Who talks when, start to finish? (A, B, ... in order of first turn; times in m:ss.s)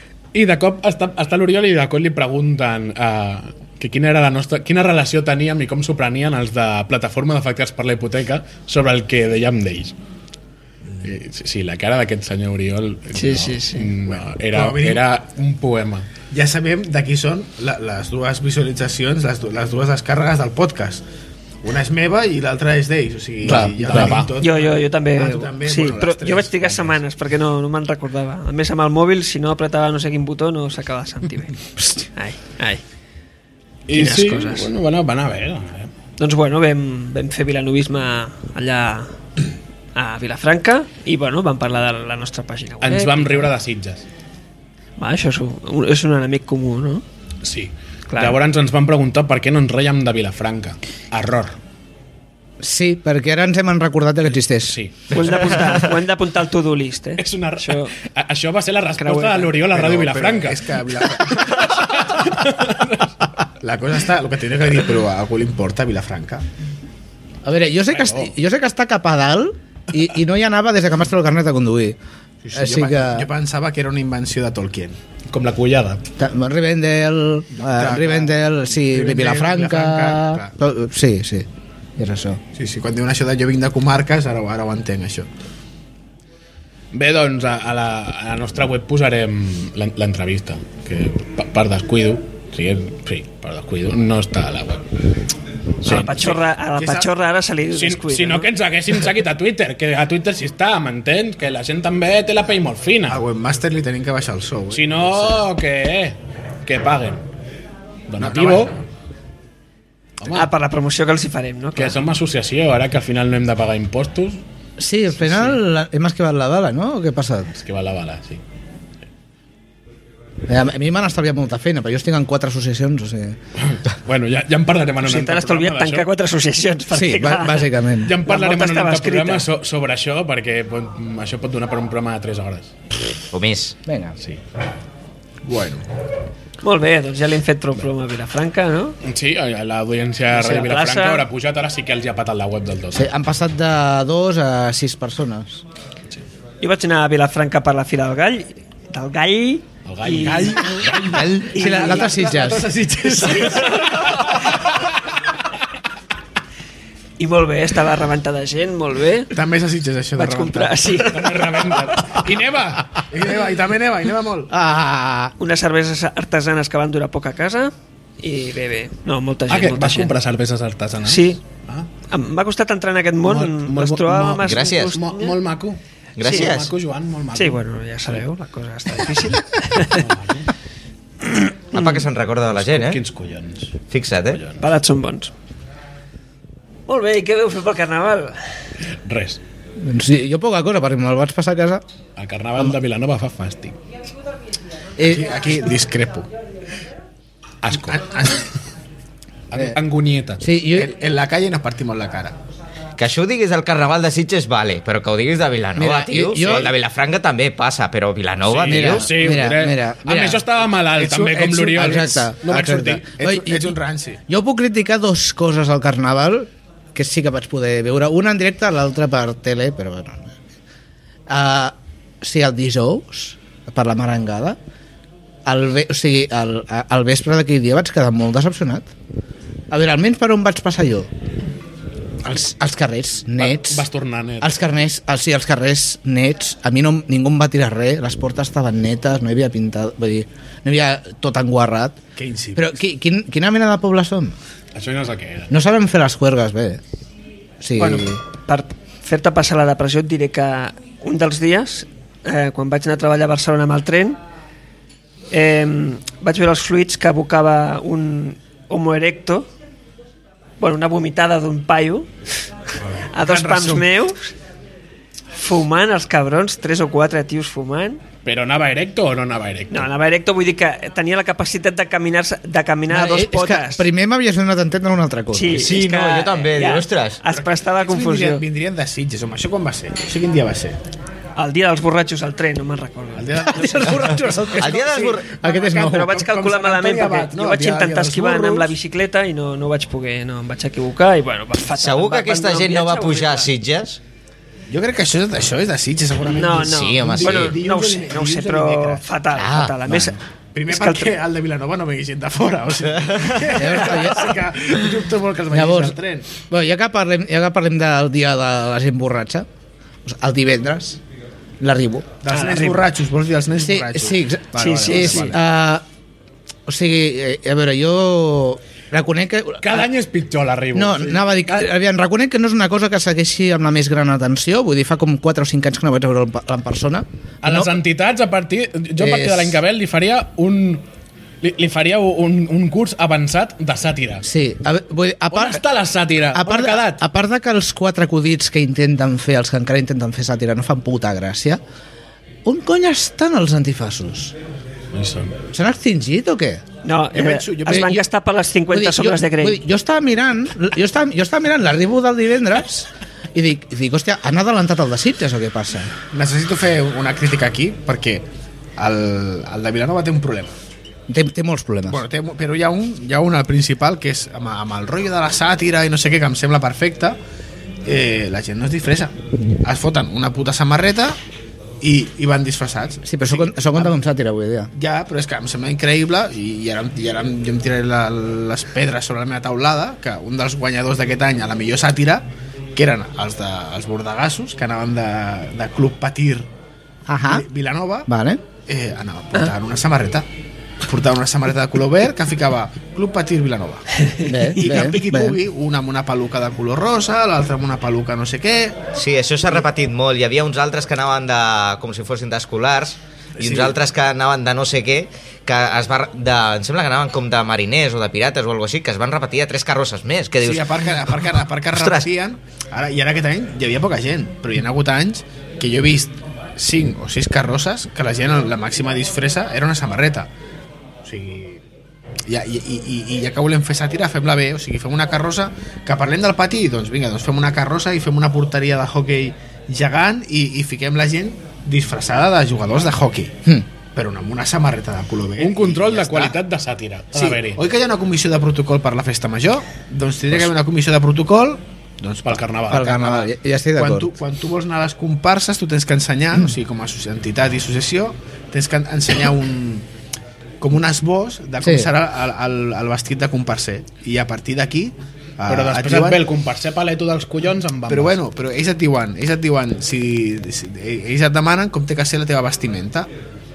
0:00.3-0:09.9 A
0:11.0-0:16.1 A
0:13.1-0:13.9 B
0:14.1-0:15.1 C
0:16.3-0:21.0 C
0:21.6-0:26.9 C
0:23.4-0:24.2 D
0:23.5-0:24.4 A
0:24.4-0:31.6 B
0:31.8-0:32.0 D
0:32.1-0:32.8 B
0:33.9-0:35.9 A
0:33.9-0:34.7 B
0:36.2-0:39.2 B
0:39.9-0:43.5 B
0:42.8-0:44.0 A
0:45.0-0:47.0 B
0:47.4-0:51.6 A
0:48.1-0:48.4 B
0:52.6-0:54.8 D
0:54.7-0:55.9 A
0:55.1-0:57.9 B
0:57.2-1:03.3 A
0:59.0-0:59.6 B
0:59.7-1:02.1 C
1:03.6-1:06.5 C
1:07.4-1:12.0 D
1:07.9-1:08.3 A
1:12.4-1:15.0 C
1:12.5-1:13.3 D
1:15.3-1:16.0 A
1:16.2-1:21.5 D
1:17.6-1:20.5 C
1:22.0-1:22.4 D
1:22.5-1:25.3 C
1:26.9-1:34.9 A
1:35.8-1:36.4 A
1:35.8-1:38.5 B
1:36.8-1:37.1 C
1:37.7-1:43.2 A
1:43.1-1:45.4 C
1:44.7-1:47.2 A
1:48.1-1:48.8 A
1:48.2-1:48.8 C
1:50.2-1:50.5 A
1:50.3-1:52.0 B
1:51.8-1:54.4 A
1:54.8-1:57.5 D
1:55.2-1:55.6 A
1:57.6-1:58.4 A
2:00.5-2:03.4 D
2:03.6-2:06.1 A
2:05.0-2:09.5 B
2:06.9-2:08.2 D
2:08.0-2:12.7 A
2:13.3-2:13.8 E
2:13.8-2:14.2 D
2:15.4-2:15.9 C
2:16.6-2:19.0 B
2:19.0-2:23.0 A
2:20.3-2:21.3 B
2:22.9-2:25.6 D
2:26.6-2:31.0 B
2:29.9-2:31.4 A
2:30.8-2:34.3 C
2:31.0-2:32.8 D
2:31.5-2:32.5 B
2:33.1-2:34.1 B
2:33.7-2:34.4 A
2:37.2-2:39.3 B
2:39.3-2:42.2 C
2:40.2-2:41.2 B
2:41.0-2:43.0 A
2:43.1-2:44.5 C
2:44.5-2:45.3 D
2:45.4-2:50.1 B
2:49.5-2:51.9 A
2:51.0-2:51.4 B
2:52.1-2:55.4 B
2:53.2-2:57.6 A
2:54.4-2:55.0 E
2:56.2-2:56.7 E
2:57.4-3:00.0 B
2:59.2-3:00.5 A
3:01.7-3:03.0 E
3:02.5-3:03.8 A
3:03.9-3:04.4 E
3:04.3-3:04.6 A
3:04.6-3:05.3 B
3:06.9-3:08.4 B
3:09.0-3:09.4 A
3:09.8-3:11.8 D
3:12.2-3:13.8 A
3:15.0-3:15.4 D
3:15.0-3:16.3 C
3:17.6-3:18.2 A
3:17.9-3:18.4 C
3:19.5-3:20.4 A
3:20.4-3:20.9 D
3:20.7-3:22.4 C
3:23.0-3:29.1 E
3:25.8-3:26.7 D
3:28.5-3:33.0 A
3:28.6-3:30.4 D
3:30.9-3:32.1 C
3:31.8-3:33.8 D
3:33.2-3:34.2 C
3:34.3-3:40.4 D
3:41.3-3:44.6 D
3:45.4-3:48.9 D
3:49.7-3:51.1 D
3:52.2-3:53.8 D
3:53.4-3:54.6 A
3:54.4-4:02.0 D
4:02.2-4:02.8 C
4:02.5-4:04.4 D
4:04.8-4:05.5 A
4:05.5-4:06.8 D
4:07.6-4:08.2 D
4:07.8-4:14.2 B
4:15.3-4:19.5 B
4:20.6-4:22.1 B
4:23.0-4:23.9 C
4:23.1-4:24.3 B
4:25.3-4:28.0 B
4:28.2-4:29.9 A
4:29.7-4:33.9 B
4:32.9-4:35.6 D
4:35.3-4:38.4 B
4:35.5-4:37.2 E
4:37.3-4:40.8 C
4:41.4-4:44.0 B
4:43.2-4:48.7 C
4:43.4-4:46.2 D
4:44.5-4:45.4 E
4:45.8-4:53.5 B
4:51.7-4:54.0 E
4:54.7-4:59.0 C
4:56.3-5:01.1 B
4:56.6-4:57.6 E
4:59.4-5:00.1 E
5:00.5-5:06.3 C
5:03.5-5:04.4 D
5:05.5-5:06.0 D
5:06.5-5:09.5 D
5:10.0-5:11.0 D
5:11.6-5:12.1 D
5:12.2-5:15.4 C
5:12.3-5:12.8 B
5:13.6-5:15.8 D
5:14.6-5:15.3 B
5:16.7-5:19.9 D
5:19.6-5:21.7 A
5:20.7-5:27.7 D
5:27.4-5:30.8 A
5:29.0-5:29.6 D
5:31.4-5:34.2 A
5:34.2-5:35.6 D
5:35.3-5:37.0 A
5:36.3-5:41.6 D
5:42.4-5:44.4 D
5:44.9-5:45.4 A
5:45.5-5:46.6 D
5:46.8-5:49.6 B
5:47.1-5:48.0 C
5:48.7-5:55.9 D
5:56.1-5:58.2 C
5:58.8-6:00.5 C
6:01.1-6:02.0 D
6:01.9-6:07.2 C
6:07.8-6:11.2 C
6:11.8-6:13.9 C
6:13.0-6:14.7 D
6:14.7-6:26.5 C
6:27.1-6:27.5 D
6:27.3-6:28.1 C
6:28.1-6:28.4 D
6:28.6-6:30.3 C
6:30.8-6:38.9 C
6:34.1-6:34.3 B
6:34.2-6:35.4 D
6:38.9-6:51.2 E
6:43.4-6:43.8 C
6:50.4-7:00.3 C
6:51.7-6:52.0 E
7:01.0-7:01.6 C
7:02.3-7:13.4 C
7:13.9-7:16.4 C
7:15.4-7:17.6 A
7:17.1-7:29.9 C
7:22.2-7:23.0 A
7:22.7-7:24.1 D
7:30.6-7:36.2 C
7:31.6-7:31.9 D
7:35.5-7:38.2 A
7:37.9-7:43.1 C